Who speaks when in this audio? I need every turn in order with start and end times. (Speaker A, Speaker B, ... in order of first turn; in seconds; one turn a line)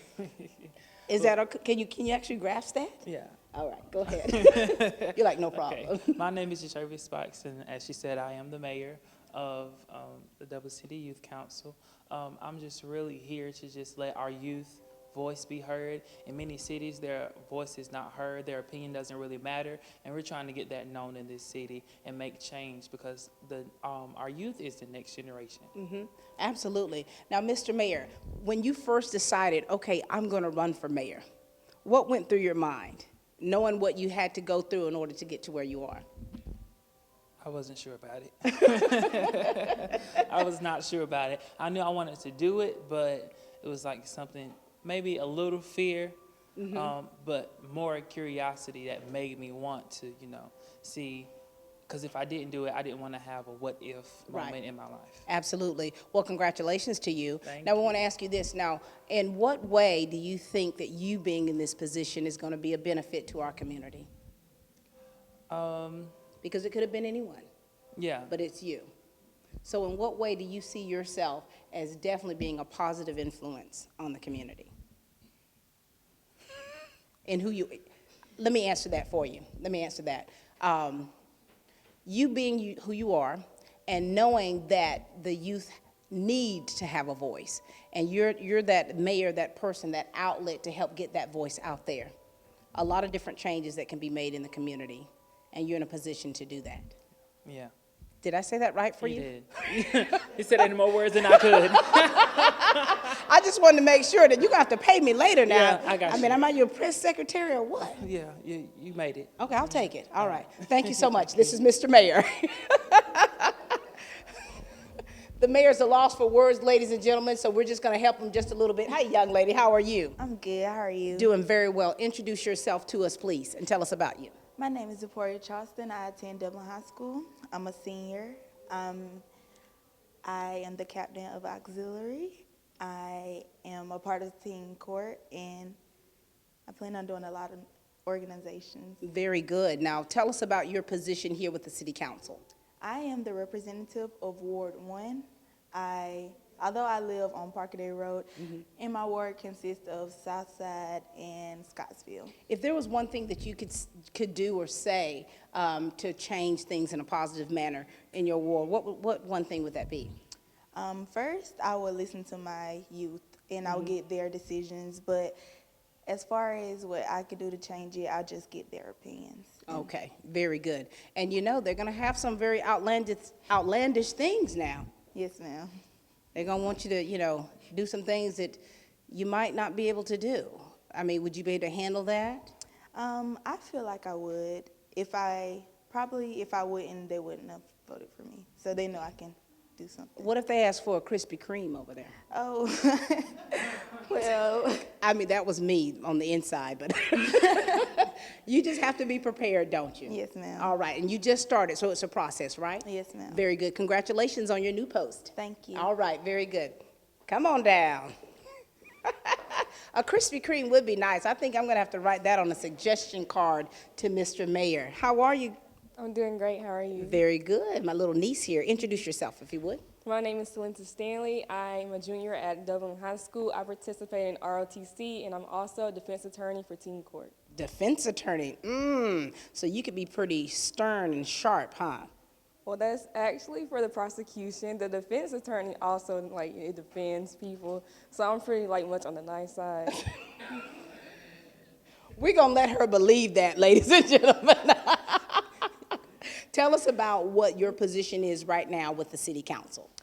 Speaker A: 0.1-1.3
Speaker B: 1.1-6.2
Speaker A: 3.0-3.4
Speaker A: 4.1-25.7
Speaker B: 25.8-31.2
Speaker B: 31.9-36.0
Speaker A: 37.4-46.2
Speaker B: 39.7-40.0
Speaker B: 46.6-46.9
Speaker A: 46.7-51.3
Speaker A: 51.9-55.3
Speaker B: 54.3-54.6
Speaker B: 55.3-64.1
Speaker A: 57.4-57.9
Speaker A: 65.5-66.2
Speaker B: 66.4-67.5
Speaker A: 68.0-68.3
Speaker B: 68.3-68.9
Speaker B: 69.6-74.7
Speaker B: 77.3-77.9
Speaker B: 78.4-81.1
Speaker B: 82.0-92.1
Speaker B: 92.8-96.9
Speaker A: 97.5-97.7
Speaker B: 98.2-99.3
Speaker A: 99.0-103.2
Speaker B: 101.2-108.0
Speaker A: 105.5-106.5
Speaker A: 107.8-111.4
Speaker B: 109.4-113.8
Speaker B: 115.4-120.2
Speaker C: 120.2-121.3
Speaker B: 121.1-124.4
Speaker C: 124.6-129.3
Speaker C: 130.2-135.8
Speaker C: 136.7-139.0
Speaker B: 139.0-142.4
Speaker C: 142.8-152.3
Speaker B: 152.5-160.2
Speaker C: 160.8-165.4
Speaker C: 166.1-169.9
Speaker B: 169.7-174.9
Speaker C: 175.1-175.7
Speaker B: 176.3-182.5
Speaker C: 182.9-190.3
Speaker B: 190.2-192.2
Speaker C: 192.3-194.9
Speaker B: 195.0-208.1
Speaker C: 197.5-197.7
Speaker C: 200.1-200.7
Speaker C: 202.8-203.4
Speaker C: 205.4-205.9
Speaker B: 209.1-215.6
Speaker D: 216.0-217.2
Speaker B: 216.9-219.8
Speaker D: 220.0-227.3
Speaker B: 227.5-232.1
Speaker D: 232.7-240.1
Speaker B: 242.2-249.9